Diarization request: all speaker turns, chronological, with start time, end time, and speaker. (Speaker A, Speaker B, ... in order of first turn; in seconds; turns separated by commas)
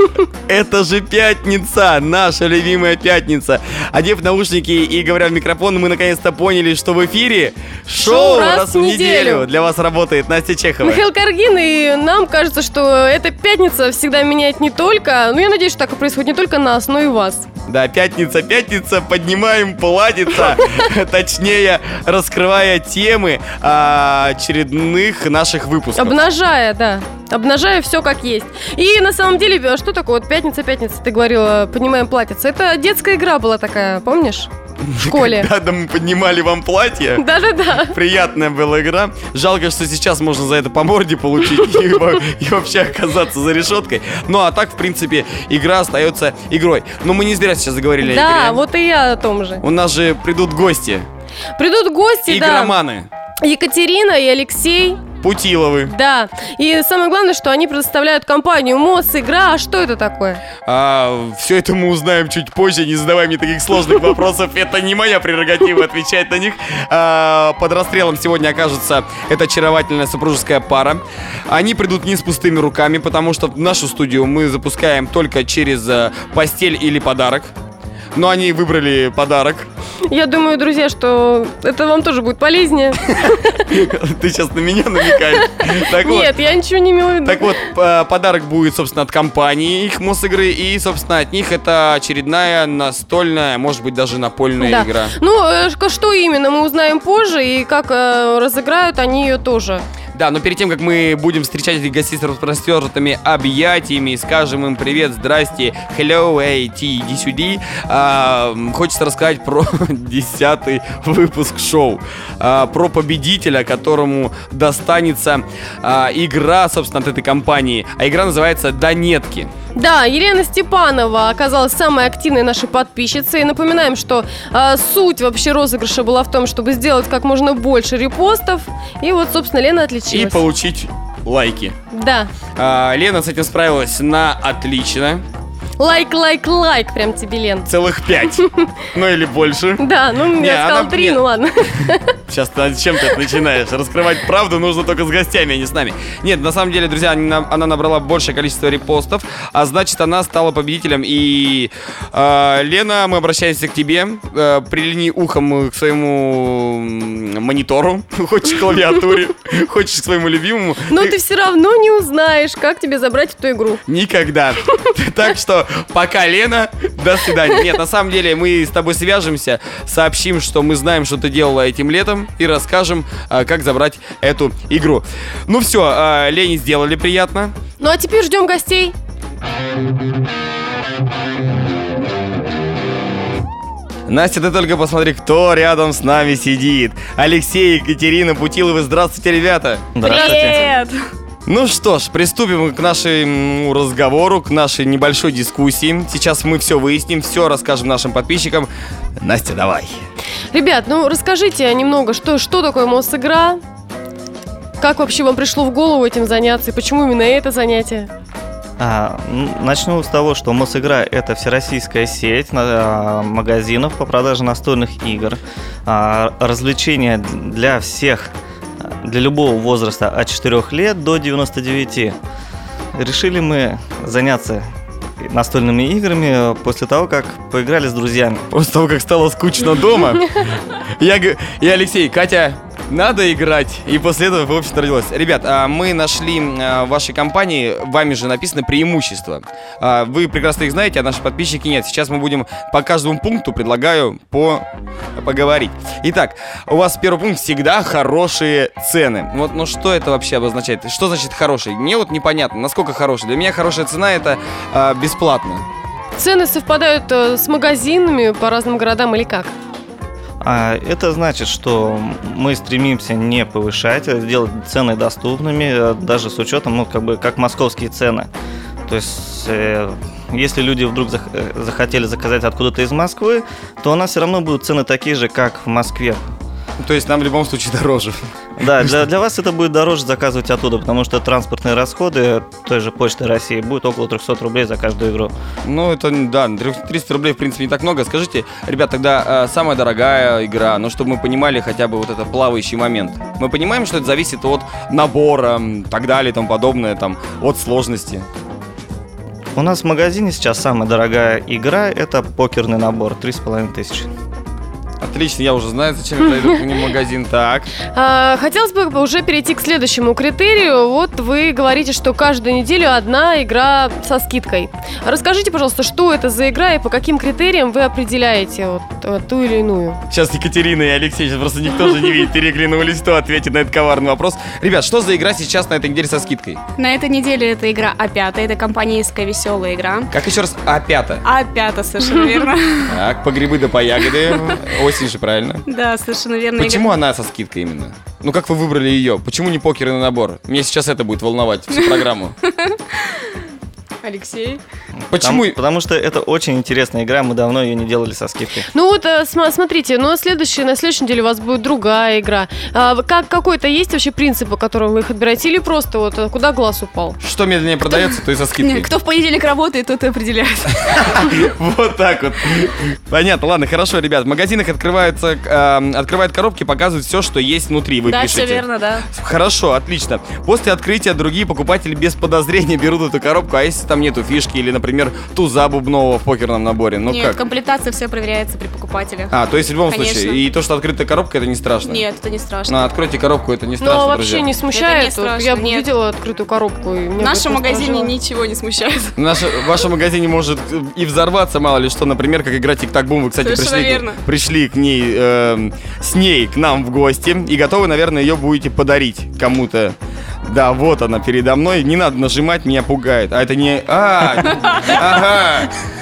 Speaker A: 0.5-11.0, Speaker B: 8.0-9.5, Speaker B: 10.8-17.5, Speaker A: 17.7-26.2, Speaker B: 25.9-34.5, Speaker A: 34.8-37.2, Speaker B: 35.0-35.5, Speaker B: 37.2-38.0, Speaker A: 37.8-48.6, Speaker B: 48.0-49.6, Speaker A: 49.6-51.1, Speaker B: 51.5-52.8, Speaker A: 52.3-53.1, Speaker B: 53.4-55.0, Speaker A: 55.2-55.9, Speaker B: 55.9-60.4, Speaker A: 60.7-77.5, Speaker A: 78.1-79.7, Speaker B: 80.1-83.5, Speaker A: 83.1-86.4, Speaker B: 85.3-87.5, Speaker A: 87.2-95.1, Speaker B: 94.6-99.8, Speaker A: 100.1-119.5, Speaker B: 119.8-130.4, Speaker A: 130.1-131.8, Speaker B: 131.9-132.3, Speaker A: 132.6-135.2, Speaker B: 135.8-137.7, Speaker A: 137.7-141.2, Speaker B: 138.4-138.7, Speaker B: 139.8-142.2, Speaker A: 142.3-161.1, Speaker B: 160.9-163.8, Speaker A: 163.9-177.5, Speaker B: 177.8-178.9, Speaker A: 184.1-190.0, Speaker C: 189.9-190.6, Speaker D: 190.0-191.0, Speaker B: 190.1-190.6, Speaker A: 191.5-200.0, Speaker B: 200.5-203.6, Speaker B: 204.8-208.1, Speaker C: 208.8-222.2, Speaker C: 222.9-224.7, Speaker C: 225.2-228.5, Speaker A: 228.5-255.6, Speaker B: 256.1-259.5, Speaker C: 260.4-268.3, Speaker C: 268.9-276.2, Speaker A: 276.8-279.0, Speaker C: 278.6-285.3, Speaker A: 285.6-298.2, Speaker C: 299.6-304.1, Speaker A: 305.0-307.7, Speaker B: 307.9-320.0, Speaker A: 320.1-326.6, Speaker D: 326.8-330.1, Speaker A: 330.1-331.2, Speaker D: 331.2-333.0, Speaker A: 332.9-335.6, Speaker D: 334.2-334.6, Speaker D: 335.6-337.0, Speaker A: 336.6-342.4, Speaker D: 342.4-343.3, Speaker D: 344.0-344.6, Speaker A: 345.1-345.6, Speaker C: 345.1-348.7, Speaker B: 348.7-357.2, Speaker A: 357.2-358.9, Speaker D: 357.9-361.2, Speaker A: 360.9-377.4, Speaker D: 368.1-369.1, Speaker D: 377.1-379.3, Speaker A: 379.3-382.0, Speaker D: 379.9-380.4, Speaker D: 381.8-382.9, Speaker A: 382.7-384.5, Speaker B: 383.8-388.1, Speaker D: 384.7-385.9, Speaker D: 387.2-389.7, Speaker A: 389.1-405.7, Speaker D: 393.4-394.2